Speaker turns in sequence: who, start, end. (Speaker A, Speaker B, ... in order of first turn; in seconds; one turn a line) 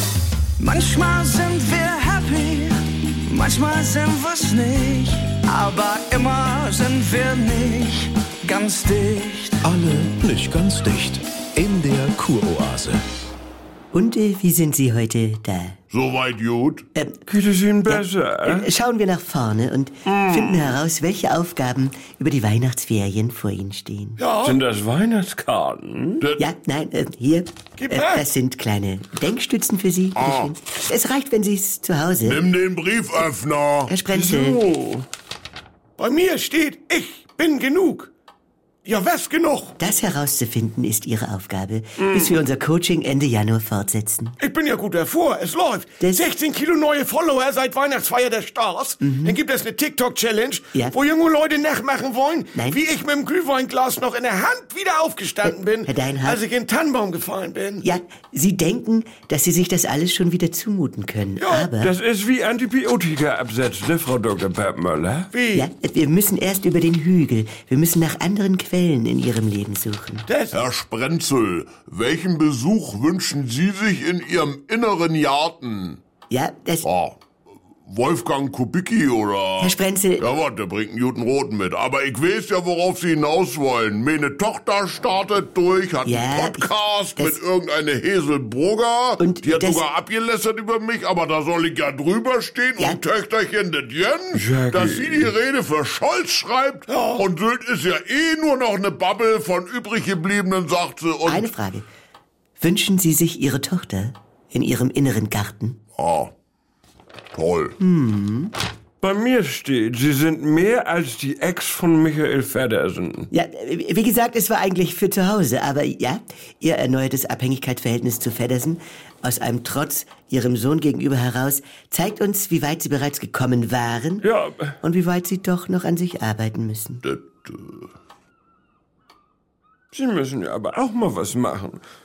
Speaker A: 0.6-9.7
Speaker B: 9.6-13.0
Speaker C: 13.9-15.8
Speaker D: 15.9-16.9
Speaker C: 16.9-17.2
Speaker E: 17.3-18.7
Speaker C: 17.9-24.2
Speaker E: 20.1-20.7
Speaker F: 24.2-24.6
Speaker E: 24.4-26.3
Speaker C: 26.4-32.4
Speaker F: 27.8-28.2
Speaker D: 30.2-30.5
Speaker D: 32.2-33.9
Speaker C: 33.9-34.6
Speaker E: 34.1-35.0
Speaker F: 36.0-38.1
Speaker F: 38.9-39.7
Speaker C: 39.8-44.4
Speaker E: 42.0-42.4
Speaker F: 44.4-57.9
Speaker C: 49.0-49.4
Speaker C: 52.5-52.8
Speaker C: 55.4-56.4
Speaker C: 57.8-61.9
Speaker F: 61.4-61.7
Speaker E: 61.8-65.3
Speaker F: 65.3-65.7
Speaker C: 65.5-70.3
Speaker F: 70.3-70.6
Speaker D: 70.5-76.0
Speaker C: 76.3-76.9
Speaker D: 76.8-77.2
Speaker D: 77.9-101.5
Speaker C: 79.6-80.3
Speaker C: 86.0-87.4
Speaker C: 89.2-89.8
Speaker E: 94.3-95.3
Speaker F: 96.9-97.3
Speaker C: 101.3-101.9
Speaker C: 102.6-105.8
Speaker D: 106.0-106.3
Speaker D: 107.3-107.8
Speaker C: 107.8-108.5
Speaker E: 109.0-113.3
Speaker C: 113.3-124.2
Speaker E: 124.2-124.7
Speaker C: 124.8-127.0
Speaker D: 127.0-127.9
Speaker E: 129.9-131.8